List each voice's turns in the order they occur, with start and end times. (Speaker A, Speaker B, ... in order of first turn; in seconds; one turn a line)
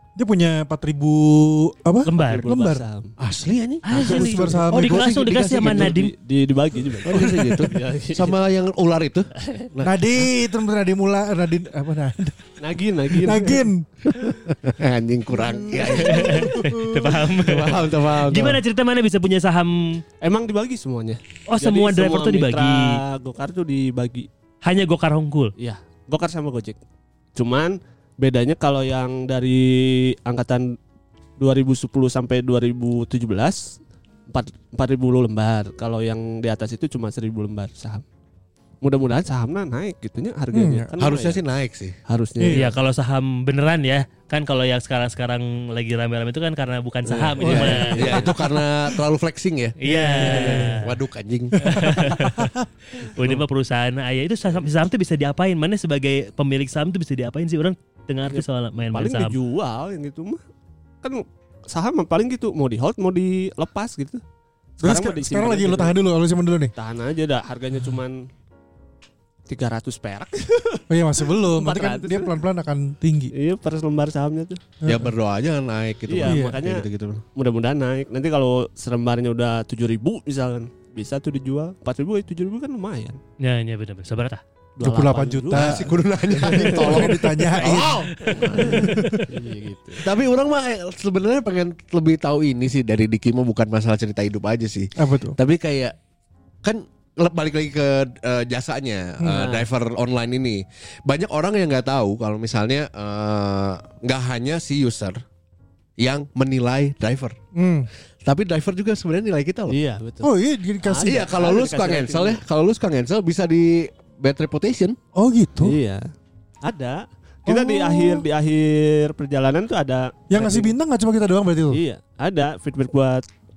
Speaker A: 0.1-2.8
Speaker B: 2.0-2.5
Speaker C: 2.2-3.1
Speaker D: 3.2-5.9
Speaker B: 3.8-6.1
Speaker A: 3.9-5.1
Speaker C: 5.6-8.3
Speaker D: 7.0-10.0
Speaker C: 9.4-9.7
Speaker A: 9.8-12.5
Speaker C: 12.6-13.6
Speaker A: 13.1-13.8
Speaker D: 14.1-18.6
Speaker A: 15.3-17.1
Speaker B: 15.8-20.0
Speaker C: 20.2-24.3
Speaker B: 21.5-23.0
Speaker B: 24.6-25.5
Speaker C: 25.6-26.8
Speaker C: 27.4-30.8
Speaker C: 31.4-33.8
Speaker C: 34.3-38.0
Speaker C: 38.8-41.4
Speaker A: 40.5-40.9
Speaker D: 41.0-41.9
Speaker C: 42.1-42.7
Speaker A: 42.4-42.7
Speaker B: 42.5-48.3
Speaker D: 47.0-49.8
Speaker A: 47.4-48.4
Speaker C: 47.4-48.5
Speaker B: 49.8-50.9
Speaker C: 49.9-50.8
Speaker A: 50.1-50.8
Speaker D: 50.8-51.9
Speaker A: 51.5-52.6
Speaker B: 51.6-59.4
Speaker C: 58.3-60.4
Speaker C: 61.0-64.2
Speaker C: 64.8-66.0
Speaker A: 64.8-66.7
Speaker C: 66.8-68.2
Speaker C: 69.5-72.4
Speaker A: 70.9-73.3
Speaker C: 73.3-74.6
Speaker A: 74.8-75.1
Speaker D: 74.8-77.2
Speaker C: 76.1-83.2
Speaker A: 76.2-76.6
Speaker B: 83.4-84.4
Speaker C: 84.8-87.2
Speaker A: 84.8-89.3
Speaker D: 85.5-89.2
Speaker C: 88.3-90.1
Speaker D: 90.0-95.9
Speaker A: 95.0-95.4
Speaker D: 96.6-105.2
Speaker A: 99.2-99.5
Speaker C: 99.3-99.7
Speaker D: 106.0-107.3
Speaker A: 107.5-107.9
Speaker D: 108.2-109.8
Speaker C: 109.7-110.3
Speaker A: 110.2-111.2
Speaker C: 110.8-112.4
Speaker D: 111.0-115.0
Speaker A: 115.1-115.8
Speaker C: 115.6-116.0
Speaker C: 116.6-120.7
Speaker A: 117.5-118.2
Speaker A: 120.3-121.8
Speaker C: 121.7-123.2